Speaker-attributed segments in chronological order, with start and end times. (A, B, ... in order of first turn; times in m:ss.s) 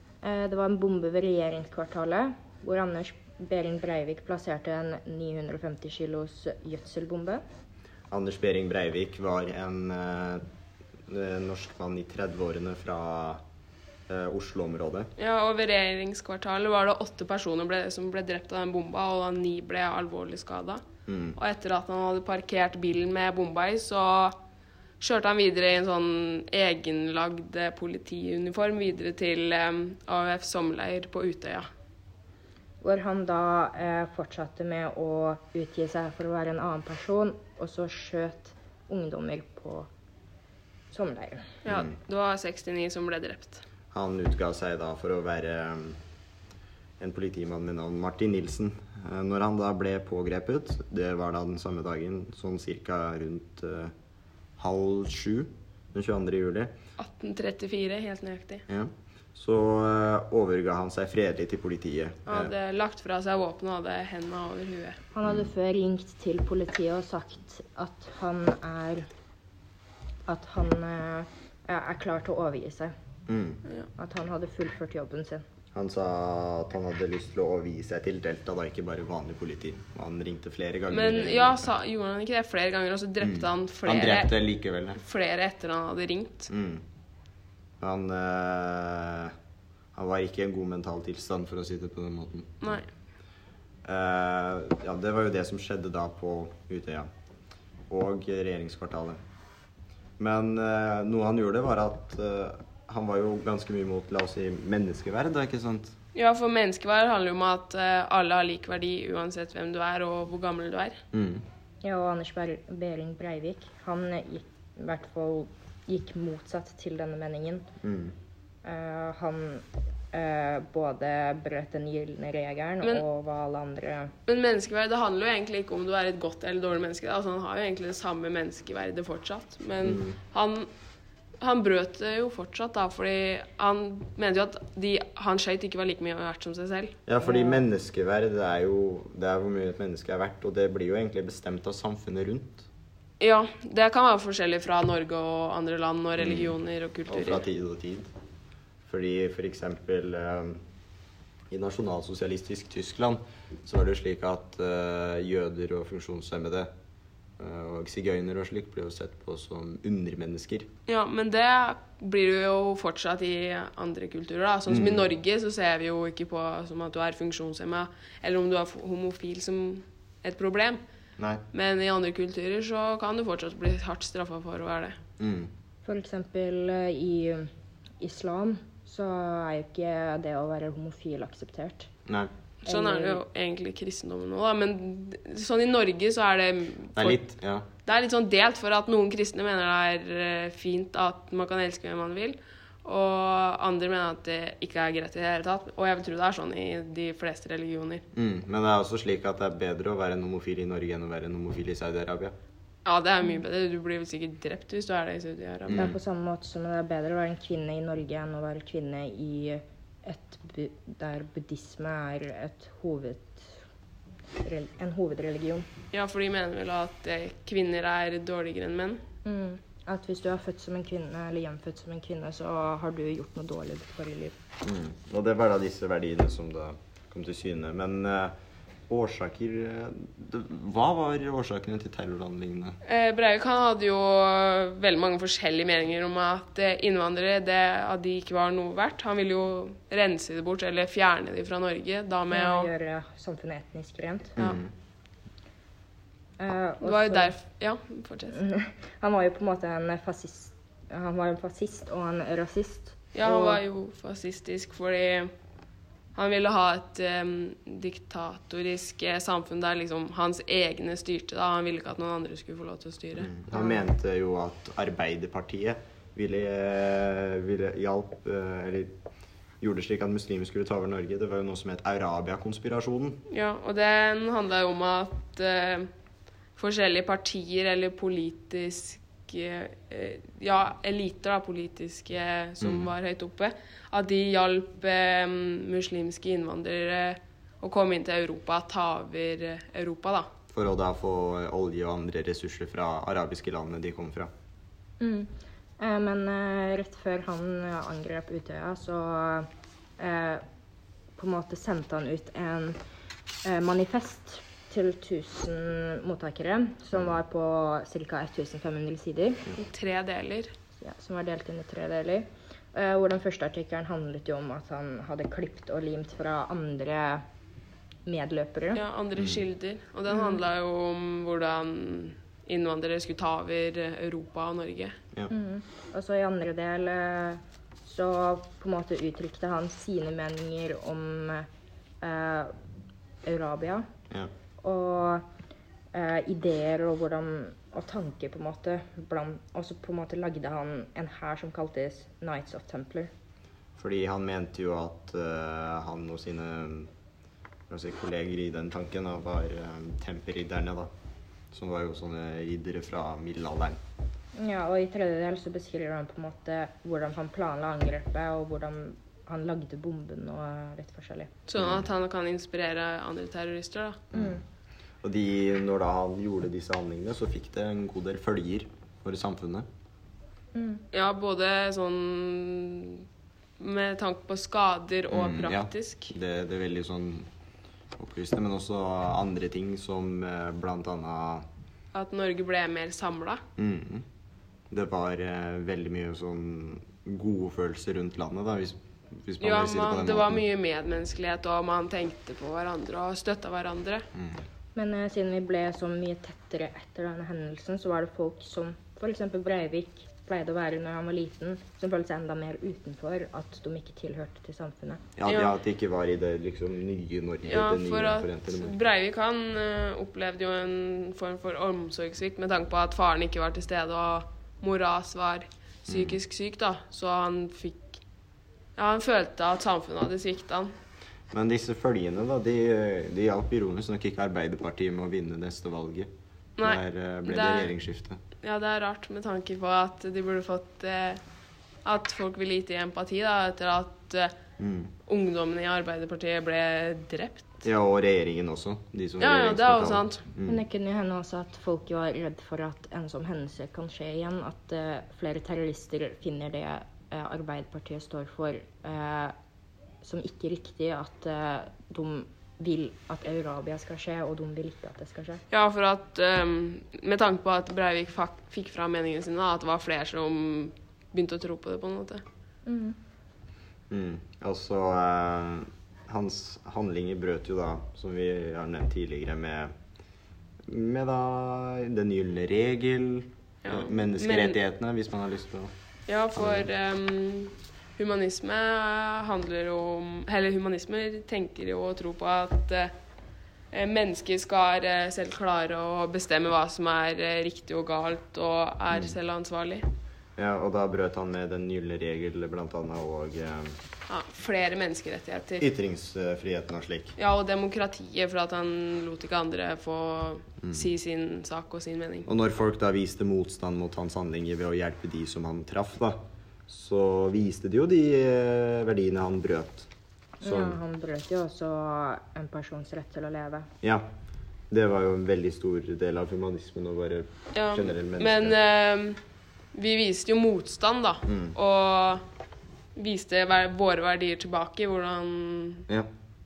0:00.2-0:07.4 A
0:08.1-0:10.4 B
0:11.1-0:13.4 B
0:14.1-0:15.1 B
0:15.2-0:20.8 C
0:21.1-0:21.4 B
0:21.4-0:24.4 C
0:25.0-0:31.7 C
0:32.8-0:39.9 A
0:40.9-0:41.5 A
0:41.6-0:43.6 C
0:43.9-0:46.0 B
0:47.0-0:53.9 B
0:54.6-0:56.7 B
0:57.0-0:58.6 C
0:58.7-1:02.5 B
1:02.3-1:05.0 C
1:05.1-1:09.1 A
1:05.2-1:05.5 B
1:10.3-1:12.9 A
1:13.3-1:13.6 B
1:14.0-1:15.4 A
1:15.7-1:21.7 B
1:20.9-1:24.3 C
1:23.2-1:25.0 B
1:24.9-1:26.5 C
1:26.5-1:26.8 B
1:27.8-1:29.3 B
1:29.9-1:32.8 B
1:32.6-1:32.9 C
1:33.8-1:37.1 B
1:37.9-1:39.2 B
1:40.2-1:45.9 B
1:46.1-1:51.0 C
1:51.1-1:51.4 B
1:51.8-1:57.6 A
1:57.8-1:58.2 B
1:58.6-2:04.1 A
2:04.3-2:10.7 C
2:09.8-2:10.2 B
2:11.4-2:16.9 C
2:17.1-2:22.7 B
2:17.2-2:17.6 A
2:23.2-2:27.5 C
2:26.2-2:26.6 B
2:27.1-2:28.1 B
2:28.9-2:30.6 B
2:31.5-2:36.7 B
2:37.4-2:40.7 B
2:40.9-2:50.8 C
2:44.7-2:45.1 B
2:51.5-2:55.0 C
2:55.2-2:55.5 B
2:55.8-2:57.5 A
2:58.0-3:01.9 A
3:02.6-3:07.2 C
3:02.7-3:03.2 A
3:07.0-3:07.6 B
3:07.8-3:18.0 C
3:18.1-3:22.3 B
3:22.8-3:25.9 C
3:25.7-3:26.0 B
3:25.7-3:33.6 A
3:34.4-3:35.7 A
3:35.9-3:39.0 C
3:39.2-3:44.3 A
3:44.6-3:48.3 B
3:48.9-3:52.8 B
3:52.8-4:02.7 C
4:02.3-4:04.4 A
4:04.4-4:04.7 B
4:06.4-4:07.3 A
4:06.8-4:08.4 C
4:08.3-4:13.6 A
4:13.1-4:15.3 C
4:16.1-4:23.3 C
4:23.2-4:28.9 B
4:23.5-4:23.8 A
4:29.6-4:33.2 B
4:33.3-4:35.9 C
4:36.6-4:50.3 C
4:42.6-4:42.9 B
4:50.5-4:54.3 B
4:55.0-4:59.5 A
5:00.0-5:00.4 A
5:01.2-5:02.8 A
5:03.4-5:09.5 A
5:09.5-5:10.5 C
5:10.8-5:17.2 A
5:18.0-5:18.8 A
5:18.8-5:25.0 C
5:19.2-5:19.4 B
5:20.1-5:20.4 A
5:25.3-5:31.5 A
5:32.0-5:32.5 A
5:33.2-5:33.8 A
5:34.6-5:35.2 A
5:35.9-5:43.1 A
5:43.8-5:46.9 B
5:47.7-5:50.9 B
5:51.5-5:53.8 B
5:54.4-6:01.3 A
6:01.5-6:04.0 C
6:01.6-6:01.9 B
6:04.1-6:04.4 B
6:04.1-6:04.4 A
6:05.0-6:09.6 B
6:10.5-6:10.8 A
6:10.9-6:13.0 C
6:13.6-6:16.1 C
6:15.1-6:17.3 B
6:18.0-6:21.4 B
6:21.9-6:23.4 C
6:23.6-6:24.0 B
6:24.7-6:30.4 B
6:29.4-6:34.0 C
6:34.1-6:34.4 B
6:34.8-6:45.0 A
6:45.2-6:48.8 B
6:45.3-6:45.5 C
6:47.4-6:58.0 C
6:55.9-6:56.2 B
6:58.8-7:00.7 C
7:01.3-7:06.1 B
7:06.6-7:07.7 C
7:06.6-7:08.2 B
7:08.4-7:11.2 C
7:11.8-7:14.3 C
7:14.6-7:14.9 B
7:15.1-7:17.4 C
7:17.6-7:20.6 B
7:19.2-7:20.2 C
7:20.4-7:29.3 A
7:30.0-7:35.4 A
7:35.5-7:42.2 C
7:42.6-7:43.0 A
7:43.9-7:49.7 B
7:50.7-7:55.7 B
7:53.6-7:54.6 C
7:56.1-8:02.9 C
7:56.4-7:56.7 B
8:03.7-8:09.8 C
8:08.9-8:09.2 B
8:10.4-8:13.8 B
8:14.1-8:15.6 C
8:15.6-8:17.2 B
8:17.2-8:22.3 C
8:20.6-8:20.9 B
8:22.3-8:29.9 B
8:30.4-8:33.7 A
8:30.4-8:30.8 B
8:34.7-8:38.6 B
8:37.5-8:39.2 C
8:39.7-8:42.2 C
8:41.2-8:41.6 B
8:42.9-8:45.9 C